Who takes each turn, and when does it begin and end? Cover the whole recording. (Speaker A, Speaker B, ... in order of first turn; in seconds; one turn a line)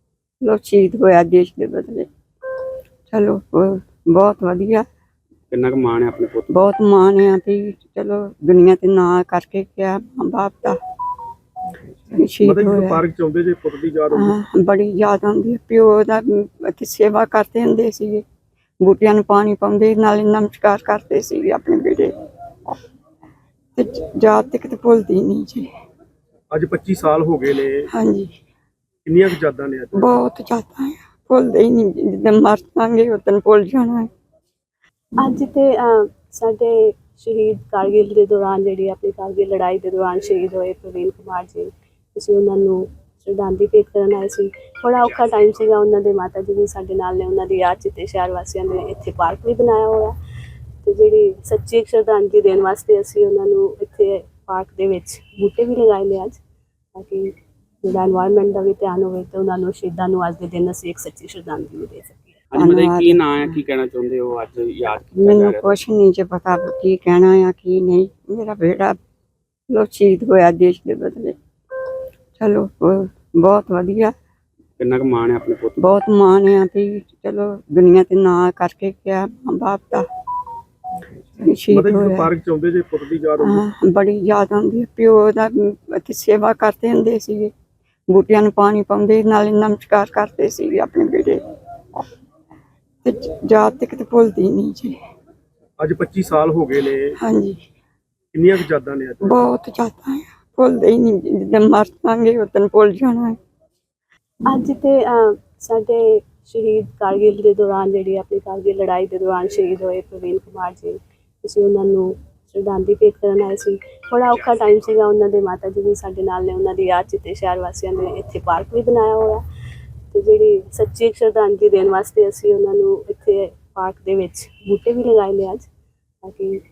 Speaker A: 0.4-2.1
Speaker A: 3.1-4.9
Speaker B: 5.5-6.5
Speaker A: 6.5-10.8
Speaker A: 12.1-13.0
Speaker C: 12.4-14.4
Speaker A: 14.1-18.2
Speaker A: 18.8-22.1
Speaker A: 23.8-25.7
Speaker C: 26.5-27.9
Speaker A: 27.9-28.3
Speaker C: 29.1-30.1
Speaker A: 29.9-34.1
Speaker D: 35.2-50.1
Speaker D: 50.8-56.4
Speaker D: 57.0-57.3
Speaker D: 57.8-62.4
Speaker B: 62.5-65.8
Speaker A: 62.5-63.6
Speaker A: 65.1-69.0
Speaker A: 69.7-71.4
Speaker A: 72.4-74.1
Speaker B: 74.8-75.8
Speaker A: 75.8-80.1
Speaker A: 81.4-82.3
Speaker C: 81.7-83.6
Speaker A: 83.4-87.5
Speaker A: 88.1-91.4
Speaker A: 93.0-95.0
Speaker C: 95.8-97.2
Speaker A: 97.2-97.6
Speaker C: 98.3-99.4
Speaker A: 99.2-103.4
Speaker D: 104.5-119.4
Speaker D: 120.1-125.7
Speaker D: 126.2-126.6